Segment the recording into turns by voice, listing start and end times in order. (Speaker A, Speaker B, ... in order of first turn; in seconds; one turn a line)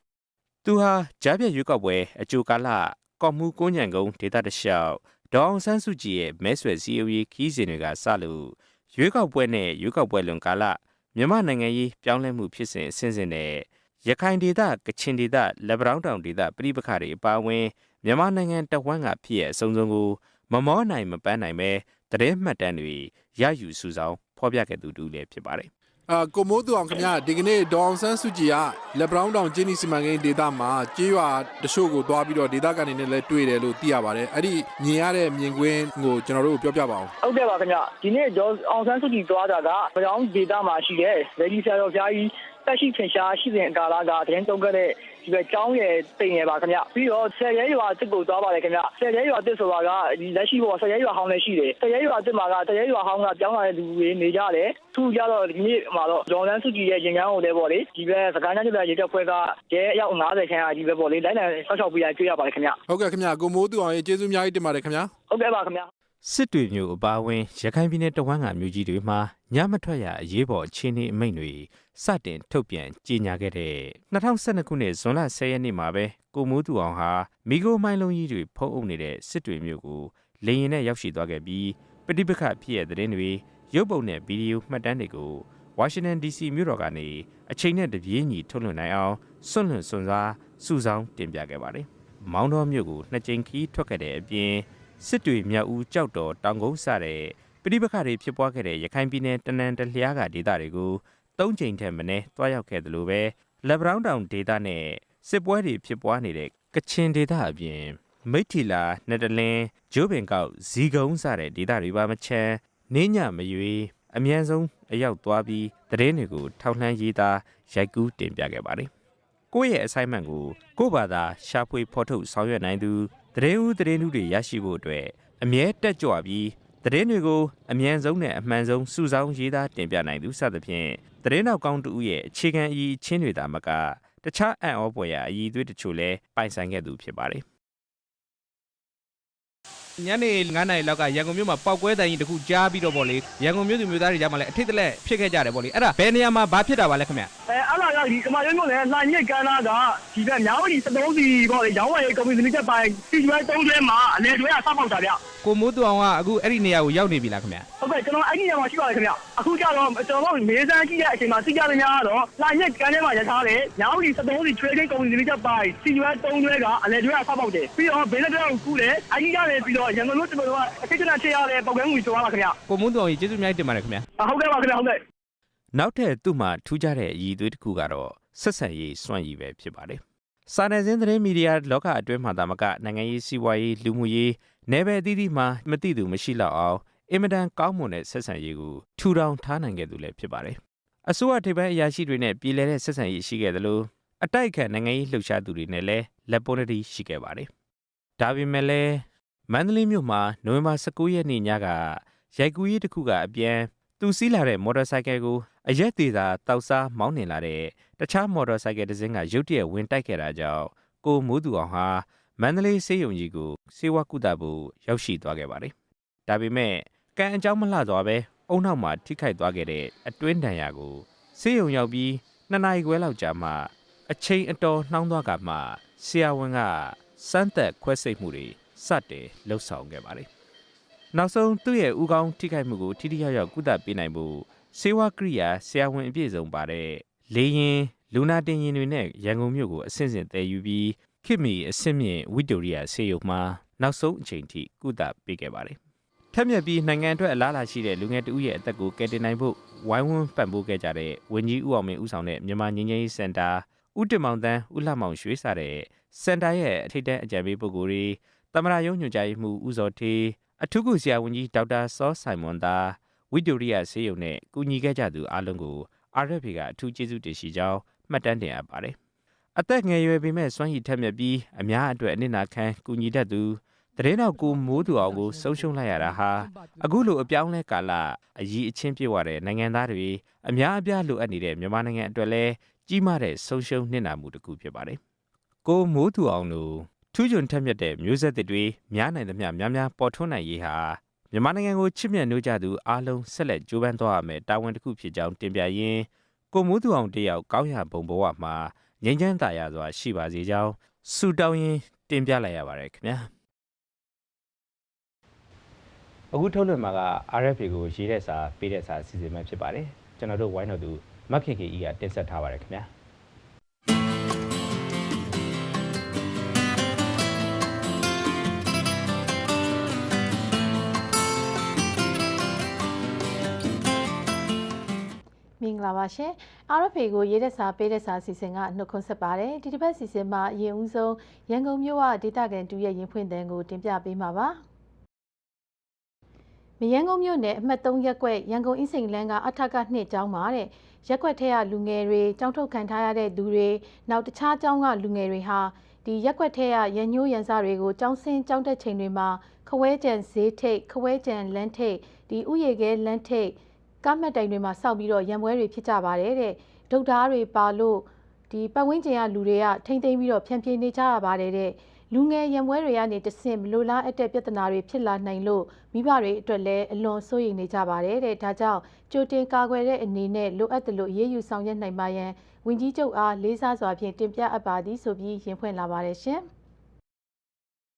Speaker A: 0.6-25.7
Speaker B: 26.1-37.1
Speaker C: 37.2-62.8
Speaker B: 62.9-65.1
Speaker C: 65.3-65.9
Speaker A: 66.2-118.9
Speaker A: 119.5-137.4
Speaker D: 140.0-147.3
Speaker C: 147.5-155.2
Speaker D: 155.4-157.7
Speaker C: 157.8-172.6
Speaker D: 172.7-174.1
Speaker C: 174.2-175.0
Speaker A: 175.7-197.5
Speaker A: 198.2-215.7
Speaker A: 216.3-230.3
Speaker A: 231.1-245.8
Speaker A: 246.3-269.0
Speaker A: 269.6-285.0
Speaker A: 285.6-303.3
Speaker A: 306.3-312.9
Speaker E: 325.6-334.6
Speaker E: 336.8-376.4